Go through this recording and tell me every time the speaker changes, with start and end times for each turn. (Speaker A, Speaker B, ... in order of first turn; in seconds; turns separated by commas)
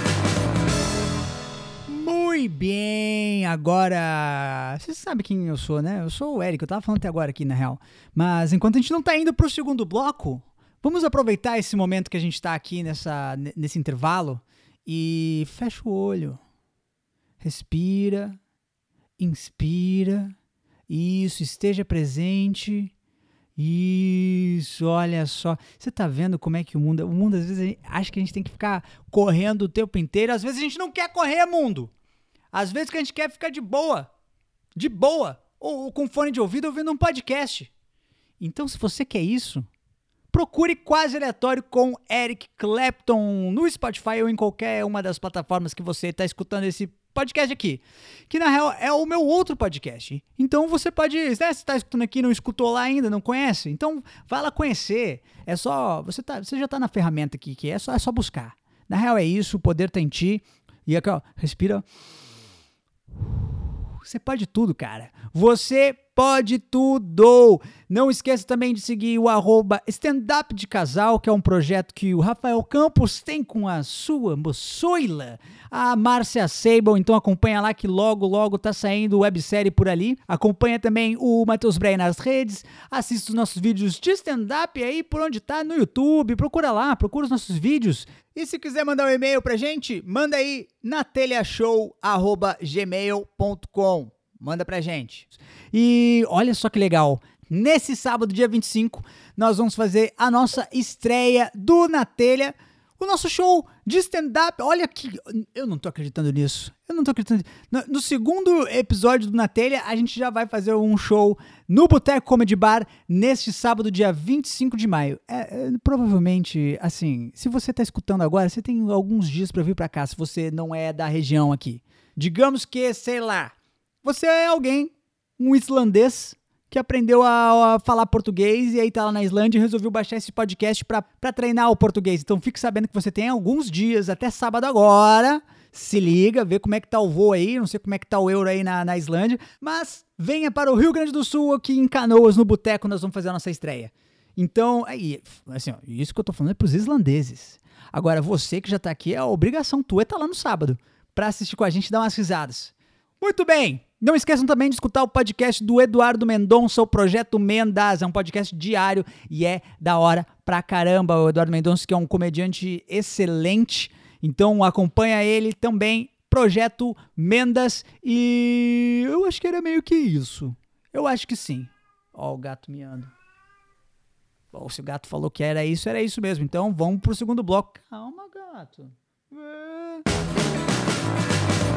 Speaker A: 1.9-16.4, Speaker A: 17.4-18.4, Speaker A: 19.2-20.3, Speaker A: 20.9-22.9, Speaker A: 23.6-31.9, Speaker A: 32.5-34.1, Speaker A: 34.8-37.7, Speaker A: 38.4-39.7, Speaker A: 40.3-61.8, Speaker A: 64.0-123.5, Speaker A: 124.0-173.1, Speaker A: 174.5-180.0